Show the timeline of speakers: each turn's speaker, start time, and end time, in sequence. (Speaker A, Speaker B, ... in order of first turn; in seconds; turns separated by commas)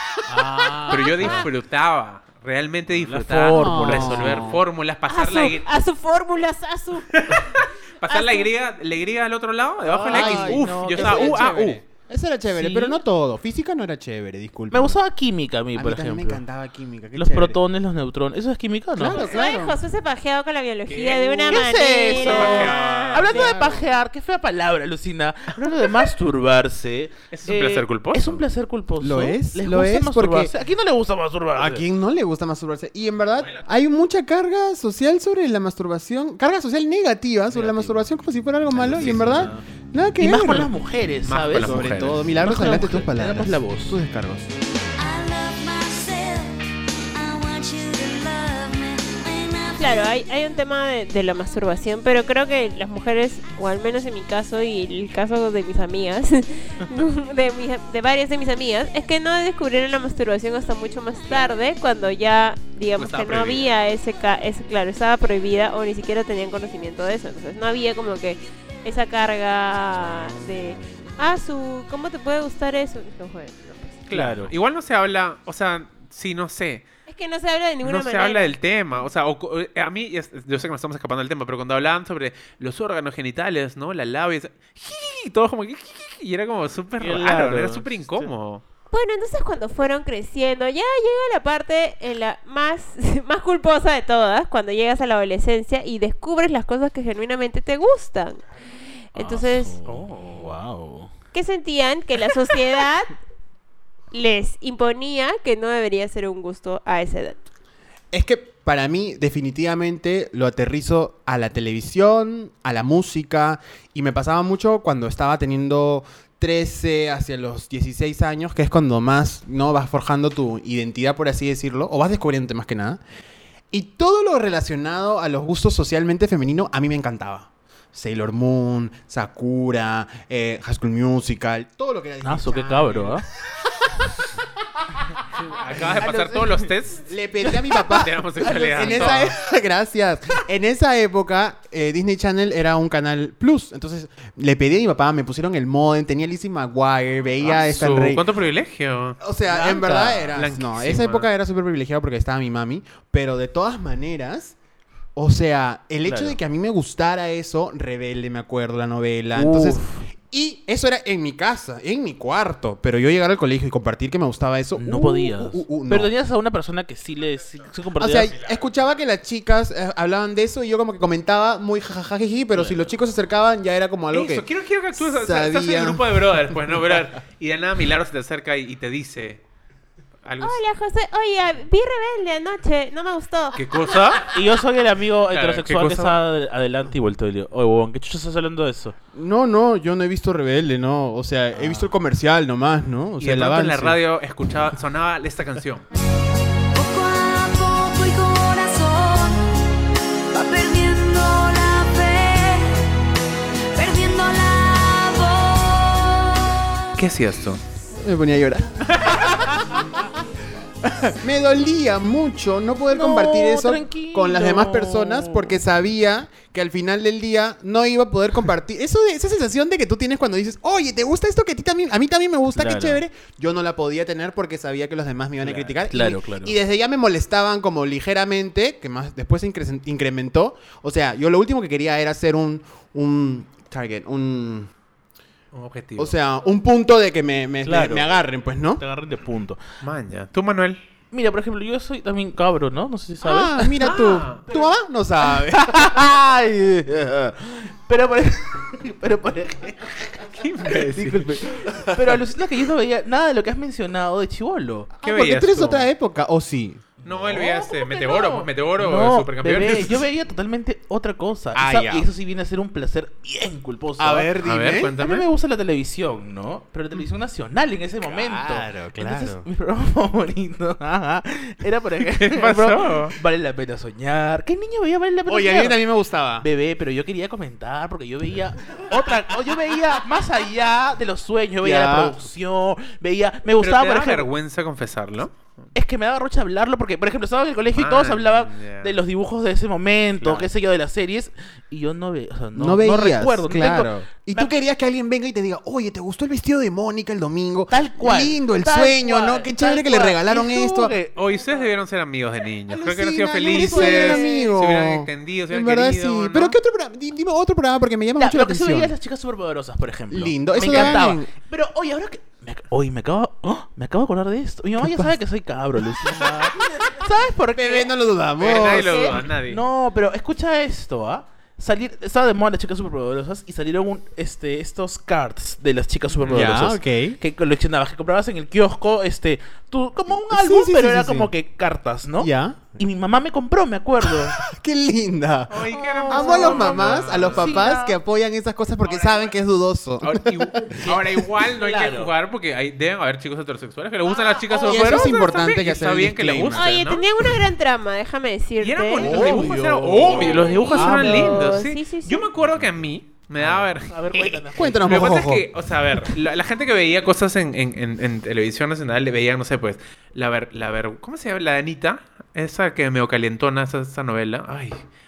Speaker A: 0.3-1.5, Speaker B: 0.9-5.7, Speaker A: 2.9-4.6, Speaker C: 3.5-4.6, Speaker D: 5.1-7.4, Speaker B: 7.1-11.8, Speaker D: 8.1-8.5, Speaker A: 9.8-11.6, Speaker C: 10.1-15.0, Speaker A: 12.5-13.0, Speaker A: 14.7-16.4, Speaker C: 15.8-17.6, Speaker A: 17.2-19.3, Speaker C: 18.9-19.8, Speaker D: 19.1-23.8, Speaker B: 20.9-23.6, Speaker A: 21.5-31.8, Speaker B: 27.3-28.4, Speaker C: 29.0-30.5, Speaker C: 31.6-40.7, Speaker A: 37.5-38.0, Speaker A: 38.7-39.6, Speaker A: 40.2-44.0, Speaker B: 41.2-42.2, Speaker C: 41.5-44.5, Speaker E: 45.0-50.2, Speaker D: 49.8-74.0, Speaker B: 63.0-63.7, Speaker B: 74.1-76.8, Speaker A: 74.1-74.5, Speaker D: 77.1-78.5, Speaker B: 77.8-88.6, Speaker A: 87.0-88.3, Speaker D: 88.9-98.4, Speaker D: 99.1-99.8, Speaker A: 99.2-101.1, Speaker B: 99.9-100.6, Speaker D: 101.3-103.1, Speaker D: 104.1-107.4, Speaker C: 108.1-123.0, Speaker C: 123.7-134.1, Speaker A: 132.2-133.2, Speaker B: 135.5-137.1, Speaker A: 135.8-136.7, Speaker C: 137.1-148.2, Speaker A: 137.5-139.2, Speaker B: 137.8-139.4, Speaker B: 147.5-149.2, Speaker C: 149.2-154.6, Speaker A: 149.5-150.4, Speaker B: 150.3-151.3, Speaker C: 155.2-166.1, Speaker A: 156.1-156.4, Speaker A: 159.3-160.0, Speaker A: 164.8-168.3, Speaker C: 168.0-176.1, Speaker B: 174.1-179.4, Speaker B: 180.2-180.6, Speaker D: 180.4-183.6, Speaker B: 183.6-184.4, Speaker A: 184.1-189.0, Speaker B: 185.3-186.2, Speaker C: 189.1-194.0, Speaker A: 191.6-191.8, Speaker B: 193.2-195.8, Speaker E: 196.7-199.5, Speaker E: 200.3-202.9, Speaker E: 203.7-206.8, Speaker B: 207.0-207.6, Speaker C: 208.0-210.2, Speaker C: 210.8-234.7, Speaker A: 212.9-215.6, Speaker A: 222.6-223.0, Speaker A: 225.4-226.6, Speaker B: 235.5-236.2, Speaker C: 236.0-238.8, Speaker A: 237.7-238.1, Speaker A: 238.8-239.6, Speaker B: 239.8-240.8, Speaker A: 241.1-244.7, Speaker C: 243.2-245.9, Speaker B: 243.8-244.4, Speaker A: 245.3-254.9, Speaker B: 250.3-251.4, Speaker C: 251.7-252.2, Speaker C: 255.0-256.9, Speaker B: 255.0-255.9, Speaker B: 257.0-260.1, Speaker A: 257.0-264.3, Speaker C: 261.5-262.1, Speaker C: 264.0-264.9, Speaker B: 264.4-265.3, Speaker A: 264.9-275.8, Speaker C: 268.0-269.5, Speaker B: 272.2-273.1, Speaker C: 275.3-276.5, Speaker A: 276.4-284.3, Speaker C: 281.6-282.2, Speaker B: 283.6-285.4, Speaker A: 285.8-294.6, Speaker B: 287.7-289.0, Speaker B: 290.2-290.5, Speaker C: 292.5-300.9, Speaker A: 297.7-301.7, Speaker B: 301.1-306.6, Speaker C: 302.7-308.9, Speaker A: 303.5-304.5, Speaker A: 308.2-334.4, Speaker C: 310.1-311.3, Speaker B: 310.6-311.0, Speaker C: 314.8-315.1, Speaker C: 317.5-319.2, Speaker B: 318.4-319.6, Speaker B: 326.2-326.5, Speaker C: 326.3-327.2, Speaker C: 330.1-331.3, Speaker C: 332.2-332.8, Speaker C: 334.1-341.0, Speaker B: 335.5-337.7, Speaker A: 335.7-338.0, Speaker B: 338.8-339.3, Speaker B: 340.0-347.0, Speaker A: 340.8-342.1, Speaker C: 344.5-346.7, Speaker D: 346.5-349.3, Speaker B: 348.6-364.8, Speaker A: 349.0-351.4, Speaker C: 349.0-350.9, Speaker D: 350.1-352.3, Speaker A: 353.4-355.2, Speaker C: 354.6-355.5